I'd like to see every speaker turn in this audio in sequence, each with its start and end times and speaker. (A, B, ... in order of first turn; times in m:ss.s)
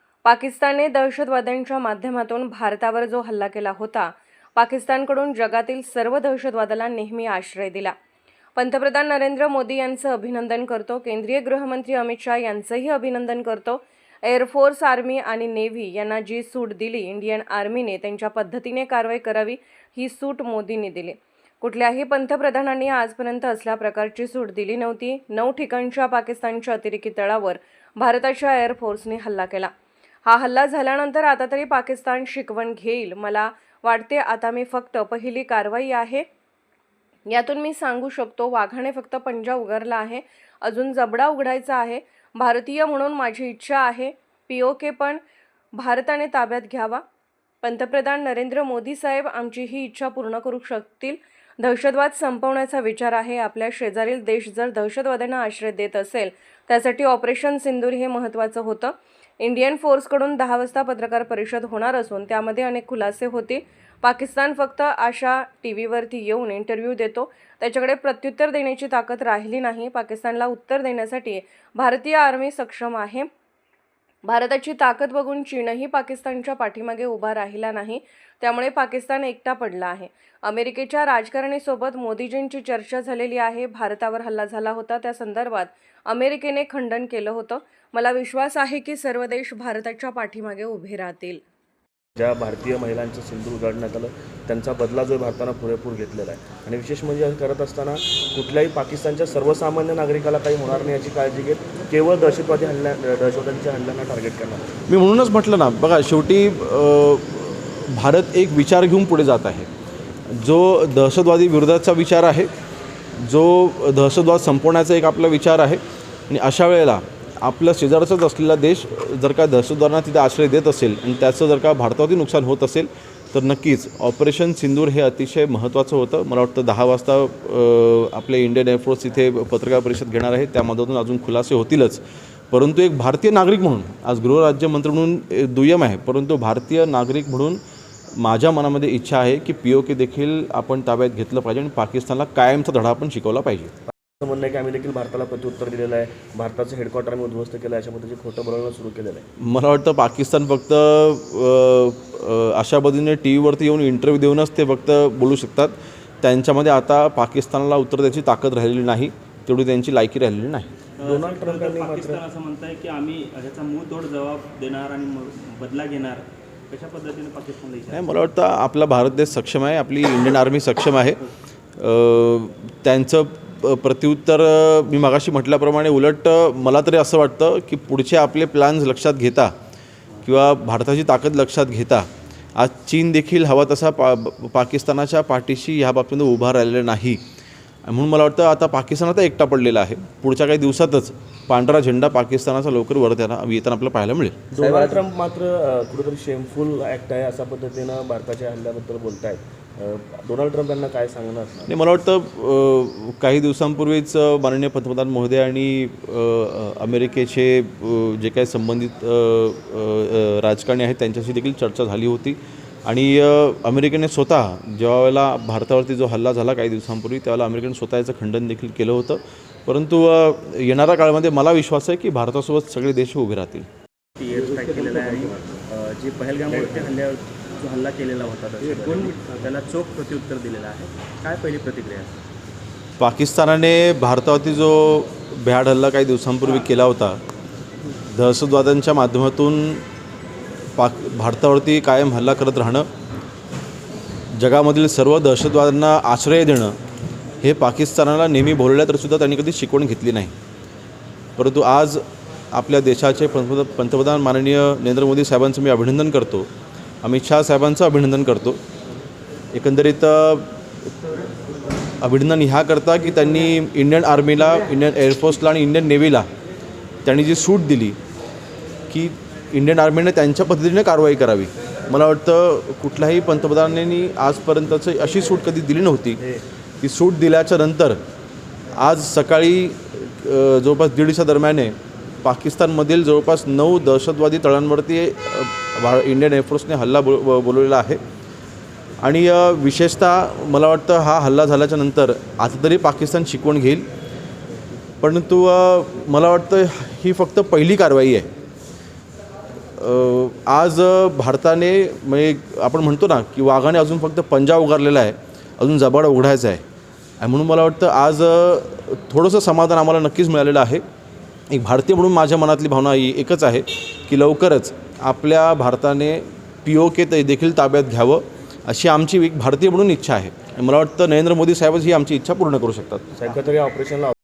0:00.2-0:07.9 A
0:08.6-0:29.7 A
0:30.3-0:36.2 A
0:37.3-0:45.2 A
0:45.8-0:47.0 A
0:47.6-1:13.3 A
1:14.2-1:31.4 A
1:32.2-1:44.7 B
1:44.9-1:49.7 C
1:50.4-1:52.5 C
1:53.2-2:17.6 C
2:18.2-2:23.7 C
2:24.2-2:29.2 B
2:29.4-2:40.7 C
2:41.0-2:48.0 D
2:41.0-2:42.2 B
2:47.9-2:51.2 C
2:51.8-2:59.5 C
3:00.2-3:07.2 C
3:07.9-3:14.4 C
3:14.5-3:21.7 B
3:21.7-3:43.7 C
3:44.2-3:52.1 D
3:53.0-3:57.2 C
3:58.1-3:59.8 C
4:00.8-4:02.9 C
4:04.4-4:06.8 C
4:07.4-4:10.3 C
4:11.4-4:12.0 C
4:12.5-4:16.5 C
4:17.0-4:18.6 C
4:19.5-4:20.5 C
4:22.0-4:26.3 C
4:27.0-4:28.0 C
4:28.9-4:36.2 C
4:36.8-4:38.0 C
4:38.8-4:48.0 C
4:49.0-4:53.8 C
4:55.0-4:58.3 C
4:59.8-5:06.6 C
5:07.2-5:10.8 C
5:11.5-5:23.1 C
5:23.2-5:24.2 B